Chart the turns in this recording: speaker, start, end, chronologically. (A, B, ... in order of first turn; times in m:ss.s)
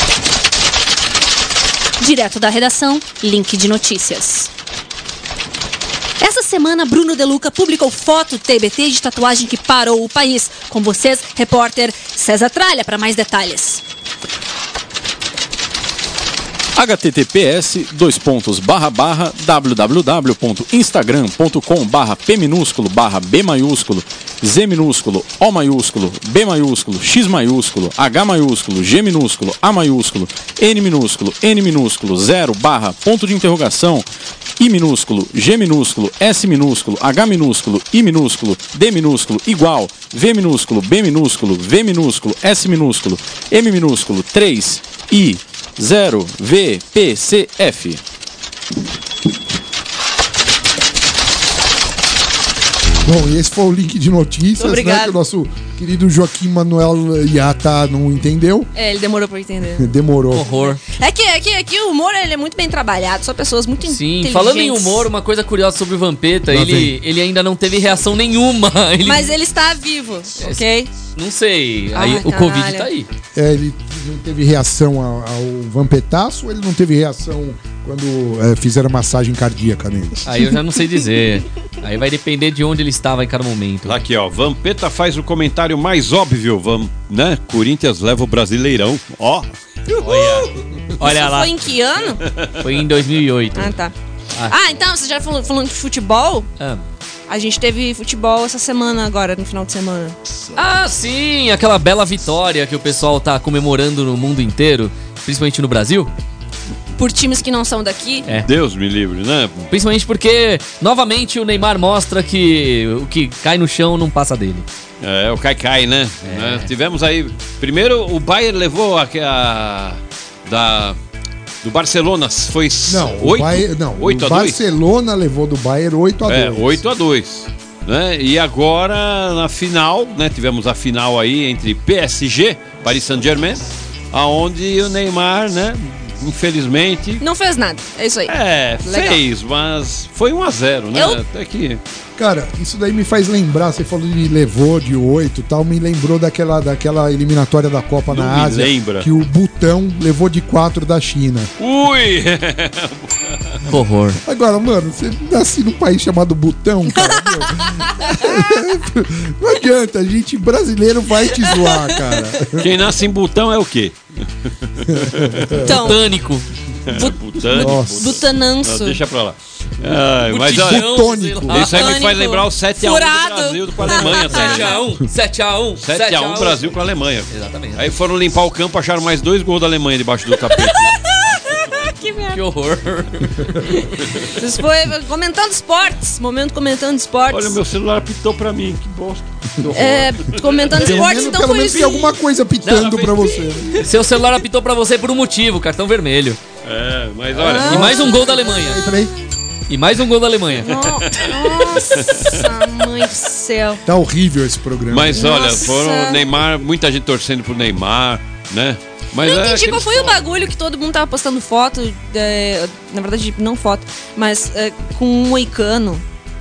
0:02.0-0:04.5 A
0:06.2-0:13.8 A
0:16.8-0:34.1 B
0:34.6-0:48.0 B
0:53.0-0:58.7 C
0:54.6-0:55.1 A
0:58.8-0:59.9 A
0:59.8-1:00.4 C
1:00.3-1:00.8 D
1:00.4-1:05.1 A
1:03.8-1:09.3 D
1:06.5-1:07.0 C
1:09.0-1:10.9 A
1:10.4-1:13.1 D
1:11.9-1:12.9 A
1:13.4-1:20.2 C
1:20.2-1:24.0 D
1:23.8-1:29.5 E
1:30.0-1:31.5 D
1:31.0-1:32.2 A
1:32.6-1:33.7 D
1:33.6-1:33.9 A
1:34.5-1:36.5 A
1:36.6-1:36.8 D
1:37.3-1:40.2 A
1:40.6-1:46.1 D
1:47.0-1:48.3 A
1:48.4-1:49.7 E
1:49.7-1:54.7 D
1:55.0-2:01.0 E
1:56.2-1:56.7 D
2:01.6-2:04.6 E
2:02.9-2:06.8 C
2:06.3-2:17.2 E
2:17.2-2:18.3 A
2:18.3-2:21.8 E
2:18.8-2:19.2 A
2:22.2-2:31.5 C
2:28.1-2:29.1 E
2:31.6-2:33.6 E
2:33.7-2:34.2 D
2:34.3-2:42.7 C
2:37.1-2:38.4 A
2:41.5-2:42.0 A
2:42.6-2:44.0 E
2:44.7-2:45.6 E
2:44.9-2:45.7 C
2:45.6-2:46.0 A
2:45.7-2:46.5 D
2:46.9-2:50.9 E
2:46.9-2:49.0 A
2:47.5-2:48.2 C
2:50.3-2:52.0 D
2:50.5-2:51.7 C
2:51.5-2:54.8 E
2:51.6-2:54.8 A
2:53.9-2:57.8 D
2:55.8-3:01.0 E
3:00.5-3:02.4 A
3:02.3-3:03.9 D
3:04.4-3:07.6 A
3:07.3-3:11.0 E
3:09.6-3:10.1 D
3:09.7-3:12.1 A
3:10.7-3:13.8 C
3:12.6-3:13.6 E
3:13.8-3:16.4 D
3:16.6-3:17.9 E
3:17.4-3:18.4 A
3:17.6-3:19.1 C
3:17.6-3:18.8 D
3:19.7-3:20.8 D
3:20.6-3:23.8 A
3:20.9-3:21.3 E
3:22.1-3:22.4 E
3:23.8-3:25.3 C
3:24.9-3:30.2 E
3:25.1-3:26.2 A
3:29.2-3:36.0 A